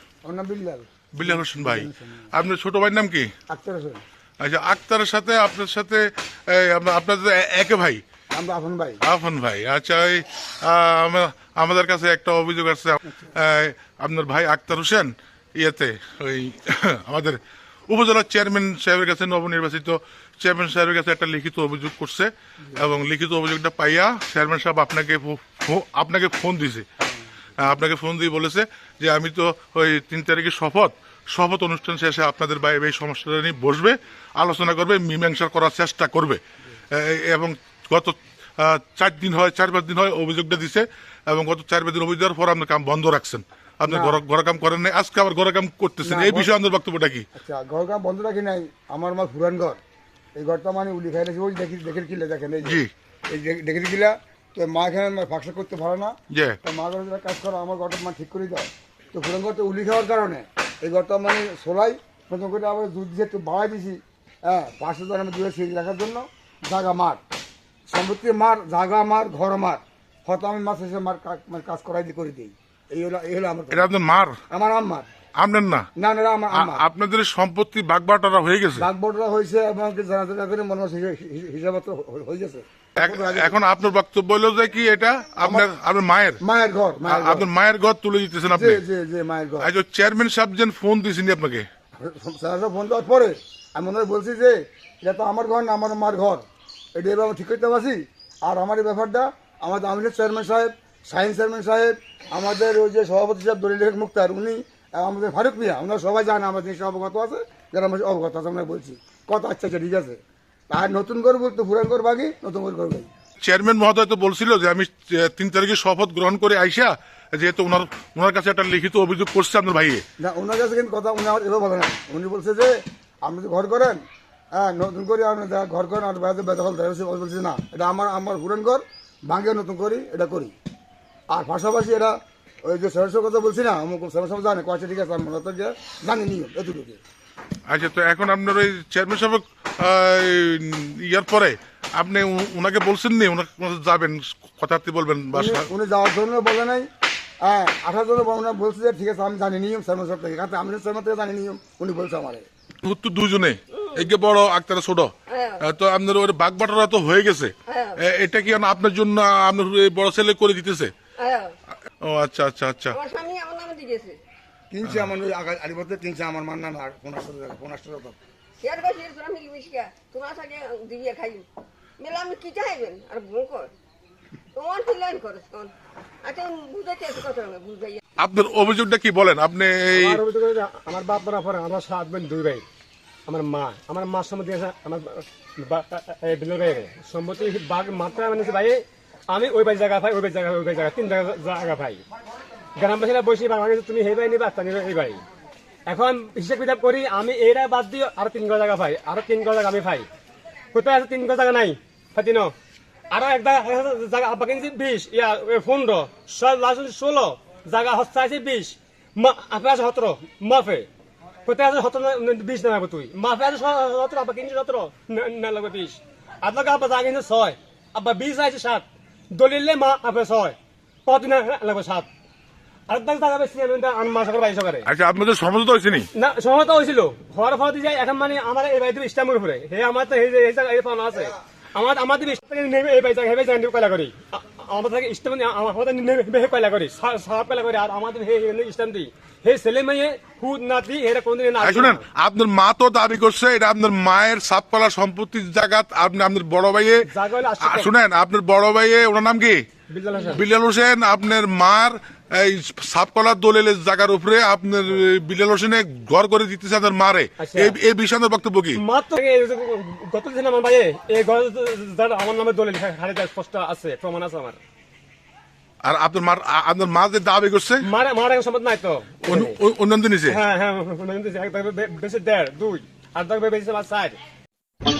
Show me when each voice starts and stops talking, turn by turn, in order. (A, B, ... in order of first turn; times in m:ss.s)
0:00.2-0:02.3 A
0:01.1-0:03.3 B
0:03.5-0:04.0 A
0:04.4-0:08.0 B
0:08.3-0:09.0 A
0:09.0-0:26.8 B
0:27.6-0:36.4 B
0:36.9-0:47.2 B
0:43.8-0:44.2 A
0:46.0-0:46.5 A
0:47.3-0:49.8 A
0:50.4-1:07.2 A
0:52.6-0:52.9 B
0:56.3-0:56.6 B
1:07.9-1:13.9 A
1:13.7-1:14.4 B
1:14.5-1:15.1 A
1:15.4-1:15.9 B
1:16.0-1:16.8 A
1:16.5-1:18.9 B
1:18.8-1:23.6 A
1:23.0-1:26.4 B
1:25.4-1:25.7 A
1:26.4-1:27.5 A
1:27.1-1:28.8 B
1:28.5-1:29.7 A
1:29.6-1:31.6 B
1:32.0-1:36.4 A
1:36.9-1:50.2 A
1:50.7-1:53.1 A
1:53.4-2:00.0 B
2:00.2-2:04.0 A
2:04.5-2:10.5 A
2:11.3-2:17.0 A
2:17.7-2:25.7 B
2:25.3-2:26.9 A
2:27.4-2:32.4 A
2:32.8-2:40.9 B
2:33.7-2:34.0 C
2:35.3-2:35.6 C
2:37.7-2:38.0 C
2:41.2-2:41.5 C
2:42.0-2:43.0 B
2:42.9-2:44.2 C
2:44.7-2:48.2 A
2:48.6-2:51.4 C
2:52.0-2:53.7 C
2:54.5-2:58.0 C
2:58.2-3:00.2 B
2:59.9-3:02.6 D
3:03.3-3:12.0 D
3:12.8-3:15.2 D
3:15.9-3:20.1 D
3:20.7-3:22.5 D
3:23.1-3:30.9 D
3:31.4-3:42.1 D
3:42.9-3:44.8 D
3:44.8-3:46.1 B
3:46.1-4:02.0 D
4:01.6-4:07.1 B
4:07.0-4:07.9 D
4:07.6-4:09.6 B
4:09.9-4:10.4 D
4:10.2-4:18.8 B
4:17.4-4:17.8 D
4:18.8-4:24.6 D
4:25.8-4:27.9 B
4:27.8-4:29.6 D
4:29.3-4:30.4 B
4:30.3-4:34.2 D